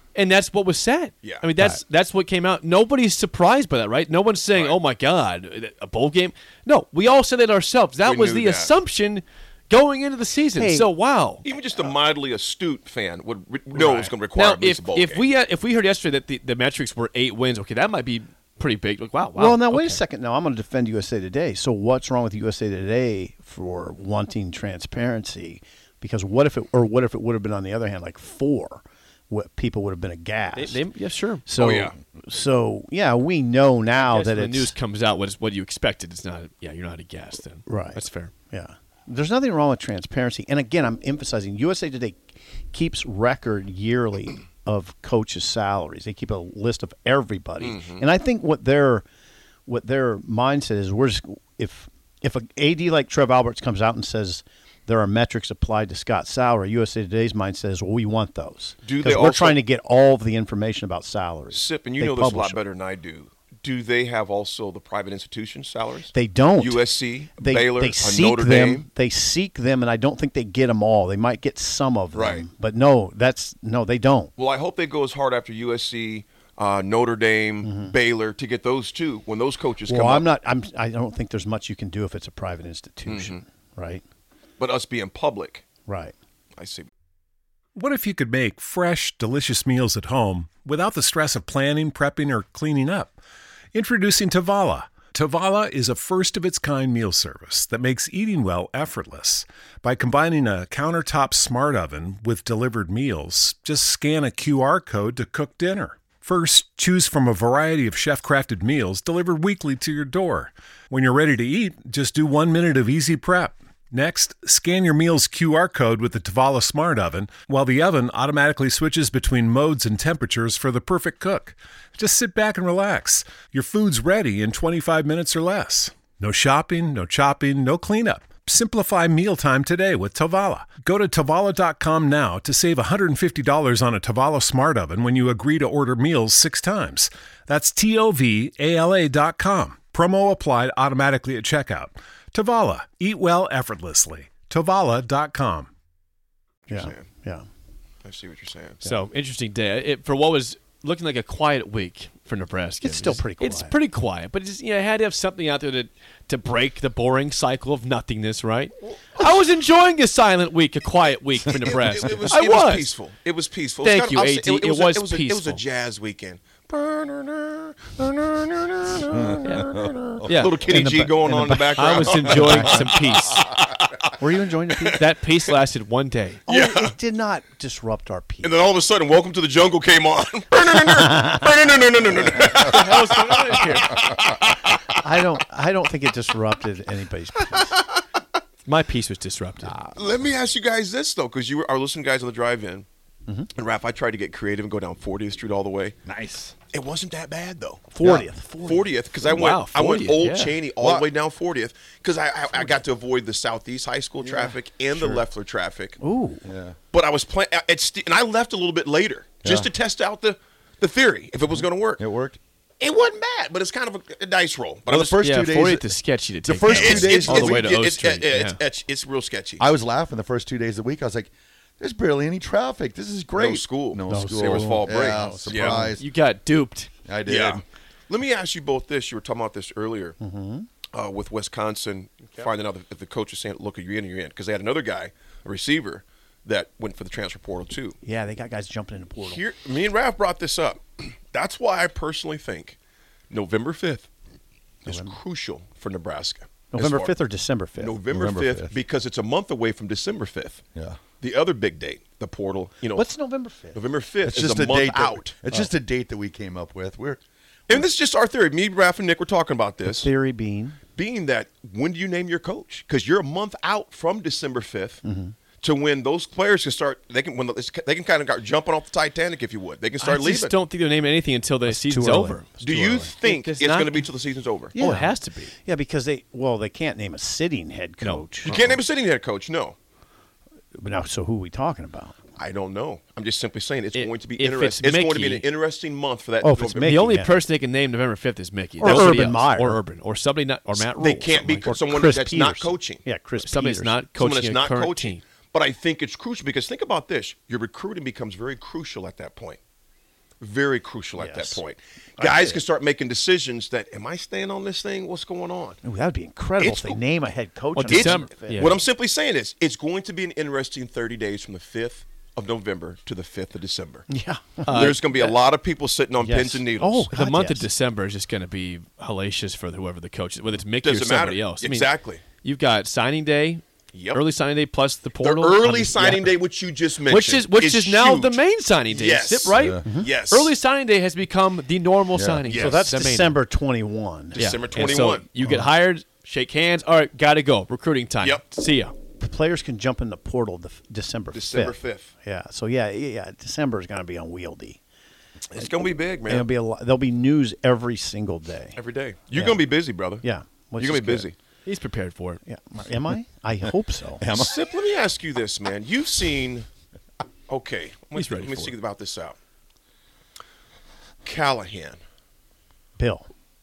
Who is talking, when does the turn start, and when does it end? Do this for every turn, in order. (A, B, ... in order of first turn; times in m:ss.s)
0:00.1-0:11.4 A
0:08.0-0:08.7 B
0:10.5-0:10.9 C
0:11.4-0:15.2 B
0:13.7-0:20.0 A
0:19.4-0:30.8 C
0:30.5-0:31.5 A
0:31.5-0:34.8 C
0:31.6-0:31.9 B
0:34.0-0:38.3 A
0:37.6-0:49.0 C
0:47.6-0:48.0 B
0:49.7-1:02.6 C
0:58.8-0:59.6 B
1:01.5-1:08.8 B
1:06.1-1:14.3 C
1:12.1-1:12.5 B
1:14.4-1:20.3 B
1:17.6-1:17.9 C
1:19.8-1:24.0 C
1:23.0-1:23.4 B
1:24.6-1:25.6 B
1:25.8-1:26.1 C
1:26.6-1:26.9 B
1:27.8-1:33.2 D
1:33.7-2:25.7 D
2:26.7-2:27.0 B
2:26.7-2:27.4 C
2:28.0-2:28.8 B
2:28.9-2:42.9 A
2:32.8-2:33.8 C
2:38.8-2:39.2 B
2:41.4-2:54.1 B
2:43.8-2:45.6 A
2:49.1-2:50.5 E
2:49.4-2:51.1 A
2:51.0-2:52.8 C
2:51.8-2:53.5 A
2:54.2-2:55.0 C
2:54.9-2:56.5 A
2:56.5-2:58.5 C
2:56.5-2:56.9 B
2:58.4-3:04.8 B
3:02.7-3:04.0 A
3:05.0-3:07.8 C
3:08.6-3:09.8 A
3:09.9-3:12.8 B
3:13.5-3:16.0 B
3:16.0-3:16.6 E
3:16.7-3:26.0 B
3:17.9-3:18.9 C
3:19.2-3:20.6 A
3:20.8-3:21.1 E
3:26.0-3:26.4 C
3:26.4-3:26.8 E
3:26.9-3:32.0 B
3:29.4-3:29.7 E
3:32.0-3:32.4 E
3:32.8-3:35.2 B
3:34.9-3:37.7 E
3:35.2-3:38.6 A
3:36.6-3:39.7 B
3:39.6-3:46.1 E
3:43.4-3:45.9 B
3:44.1-3:46.0 C
3:45.9-3:46.9 A
3:47.1-3:47.6 E
3:47.2-3:50.2 B
3:50.2-3:50.7 C
3:50.9-3:58.0 B
3:58.0-3:59.4 C
3:59.2-4:02.8 B
4:03.3-4:04.1 B
4:04.8-4:05.2 C
4:04.8-4:07.1 B
4:06.7-4:08.0 C
4:07.8-4:10.6 B
4:08.1-4:08.8 E
4:10.7-4:11.0 E
4:11.2-4:13.1 B
4:12.9-4:13.8 C
4:13.7-4:15.4 B
4:14.2-4:17.2 E
4:17.7-4:20.1 B
4:19.8-4:20.8 C
4:21.0-4:25.0 B
4:25.0-4:25.4 C
4:25.6-4:30.6 B
4:30.0-4:32.5 A
4:31.6-4:33.1 C
4:32.6-4:34.8 B
4:33.2-4:34.1 A
4:34.7-4:38.6 C
4:34.8-4:35.5 A
4:38.0-4:38.7 A
4:38.5-4:39.8 B
4:40.8-4:42.2 C
4:42.4-4:47.2 B
4:43.9-4:45.5 A
4:46.4-4:47.3 C
4:46.8-4:51.8 A
4:48.8-4:49.8 C
4:48.8-4:49.4 B
4:50.7-4:53.1 B
4:51.6-4:54.0 C
4:53.4-4:55.2 A
4:54.1-4:59.6 B
5:00.4-5:05.8 B
5:01.2-5:01.6 C
5:02.2-5:02.6 C
5:05.8-5:08.7 C
5:06.6-5:07.0 B
5:07.7-5:08.8 A
5:07.9-5:14.0 B
5:14.1-5:15.0 C
5:14.6-5:15.4 A
5:14.7-5:17.1 B
5:16.2-5:17.7 C
5:17.1-5:26.3 A
5:20.8-5:22.2 B
5:23.9-5:24.2 B
5:25.2-5:30.6 B
5:27.0-5:33.4 A
5:29.5-5:29.8 E
5:29.8-5:30.1 C
5:32.1-5:32.4 E
5:32.5-5:32.9 B
5:32.5-5:34.9 C
5:34.3-5:35.3 B
5:34.3-5:38.9 A
5:35.4-5:35.7 C
5:39.2-5:44.8 C
5:41.3-5:42.1 B
5:45.5-5:46.5 B
5:46.2-5:48.8 C
5:48.7-5:50.2 B
5:49.3-5:49.6 C
5:50.1-5:51.3 C
5:50.8-5:51.3 B
5:51.6-5:52.4 A
5:52.4-5:54.2 C
5:54.2-5:54.5 E
5:54.3-5:56.7 B
5:57.5-5:59.4 B
5:58.1-5:58.8 A
6:01.2-6:02.0 B
6:03.0-6:03.3 C